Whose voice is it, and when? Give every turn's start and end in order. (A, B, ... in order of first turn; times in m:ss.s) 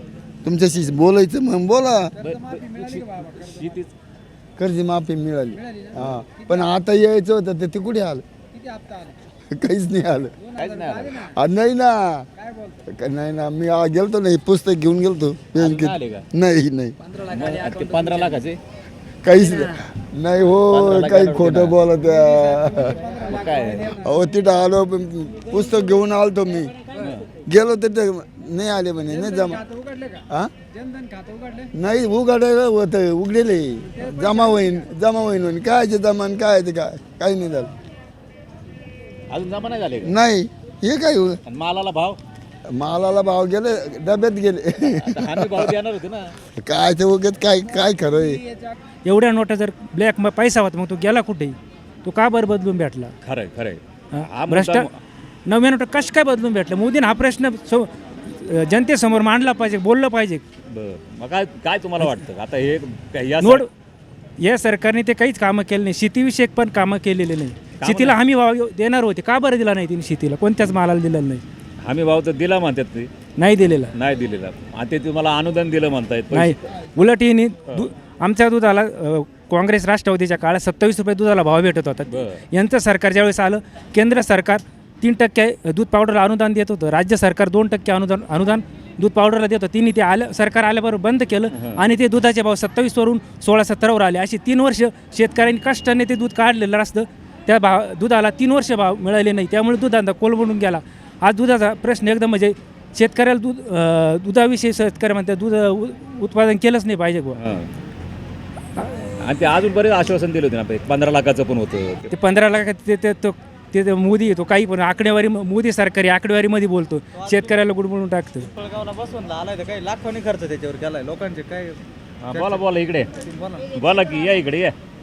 0:00.4-0:02.1 A
0:02.2-0:03.9 B
0:04.6-0:08.2 A
0:09.5-0:10.3 A
0:10.5-0:11.3 B
0:11.3-0:12.3 A
0:13.0-0:17.0 A
0:15.6-0:16.2 B
0:17.3-0:18.6 B
0:19.2-0:23.0 A
0:20.7-0:21.8 B
0:23.2-0:23.9 B
0:23.9-0:26.7 A
0:27.0-0:27.3 B
0:27.5-0:29.6 A
0:31.8-0:37.7 A
0:39.3-0:40.1 B
0:40.0-0:41.4 A
0:41.5-0:42.2 B
0:42.7-0:45.7 A
0:44.9-0:46.4 B
0:46.6-0:48.4 A
0:49.0-0:53.1 C
0:53.2-0:54.9 B
0:54.1-0:54.9 C
0:55.5-1:00.4 C
1:00.7-1:03.6 B
1:03.4-1:03.7 C
1:04.4-1:11.4 C
1:07.8-1:08.2 B
1:11.8-1:13.1 B
1:13.4-1:13.9 C
1:13.9-1:16.6 B
1:16.3-1:47.4 C
1:22.1-1:22.4 B
1:31.5-1:31.8 B
1:47.4-1:47.7 B
1:48.8-1:49.0 C
1:49.2-1:52.1 B
1:52.1-1:58.5 C
1:58.6-2:02.6 D
2:02.2-2:03.1 B
2:03.3-2:03.6 D
2:03.6-2:04.8 B